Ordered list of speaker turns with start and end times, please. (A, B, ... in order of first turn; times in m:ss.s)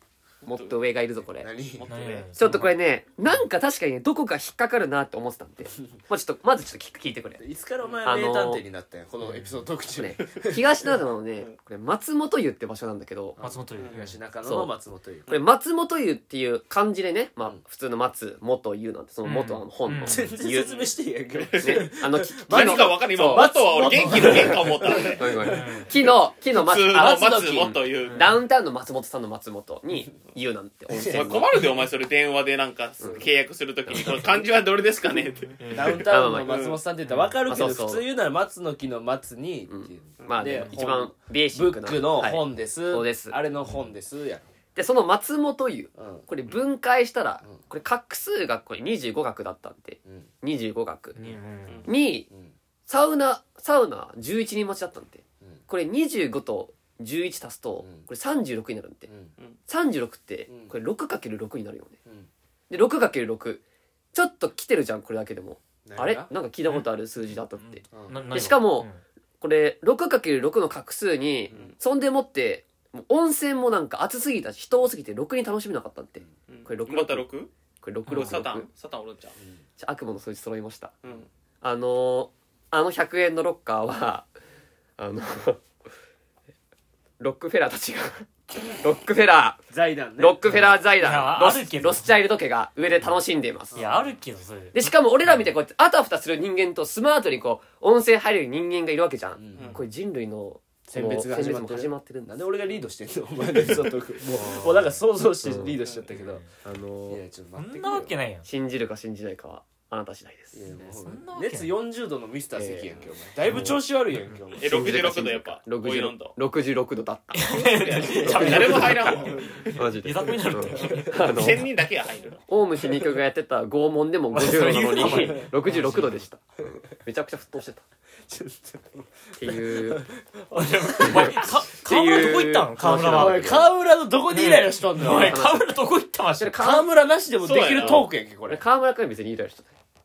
0:00.4-0:00.8 A
0:00.4-0:01.5 B
0:01.4-0:01.9 C
0:01.8-0:02.3 A
0:01.9-0:02.7 D
0:02.4-0:07.4 B
0:07.4-0:10.6 C
0:08.0-0:08.6 B
0:09.2-0:09.6 D
0:10.0-0:13.4 B
0:13.4-0:15.3 C
0:13.4-0:14.2 D
0:14.4-0:14.7 B
0:15.3-0:20.7 B
0:19.2-0:20.2 D
0:20.0-0:25.9 C
0:20.6-0:21.9 A
0:21.6-0:23.5 B
0:22.4-0:25.2 A
0:24.2-0:31.7 B
0:25.4-0:25.9 D
0:26.4-0:28.4 A
0:26.9-0:27.7 C
0:28.0-0:28.3 D
0:30.9-0:31.3 C
0:31.0-0:35.6 A
0:33.9-0:34.2 B
0:35.6-0:36.1 D
0:35.7-0:44.4 C
0:36.0-0:36.6 B
0:36.4-0:36.8 A
0:37.0-0:37.3 D
0:37.4-0:38.0 B
0:39.7-0:43.4 B
0:44.7-0:51.2 B
0:46.0-0:46.2 C
0:51.2-0:51.9 D
0:51.8-0:52.3 B
0:52.3-0:52.5 C
0:52.9-0:59.1 B
0:57.8-0:58.1 C
0:59.1-0:59.3 C
0:59.7-1:02.0 B
1:00.5-1:00.7 C
1:02.7-1:03.6 B
1:04.1-1:08.9 B
1:05.8-1:06.3 C
1:07.9-1:08.2 C
1:08.0-1:09.0 D
1:09.4-1:17.2 B
1:11.5-1:11.7 C
1:16.5-1:17.5 A
1:17.8-1:18.7 B
1:18.1-1:18.4 D
1:18.1-1:19.3 A
1:19.8-1:20.9 B
1:21.6-1:24.3 B
1:25.0-1:25.6 B
1:27.2-1:29.6 B
1:29.7-1:30.4 C
1:30.2-1:33.8 B
1:30.5-1:32.1 D
1:33.7-1:34.1 C
1:33.7-1:34.9 D
1:34.7-1:42.3 B
1:39.4-1:39.8 C
1:40.9-1:46.4 C
1:44.3-1:44.6 B
1:44.5-1:44.8 D
1:45.4-1:45.8 B
1:46.1-1:46.5 D
1:46.6-1:47.2 B
1:47.1-1:48.2 C
1:47.6-1:48.5 D
1:48.4-1:50.6 B
1:50.5-1:54.7 C
1:50.8-1:51.7 D
1:52.6-1:52.9 B
1:53.5-1:53.8 B
1:54.6-1:56.3 A
1:54.6-2:01.7 B
1:57.3-2:01.6 D
1:57.5-1:59.8 A
1:59.2-1:59.6 C
2:00.6-2:01.1 C
2:01.2-2:02.4 A
2:02.5-2:07.8 B
2:04.3-2:06.2 D
2:05.1-2:05.5 C
2:08.3-2:11.5 C
2:09.4-2:10.1 B
2:10.5-2:13.6 D
2:11.0-2:13.7 B
2:13.0-2:15.4 C
2:14.3-2:16.8 D
2:15.0-2:15.7 B
2:16.4-2:16.9 B
2:16.6-2:18.6 C
2:17.4-2:18.1 A
2:17.8-2:19.7 B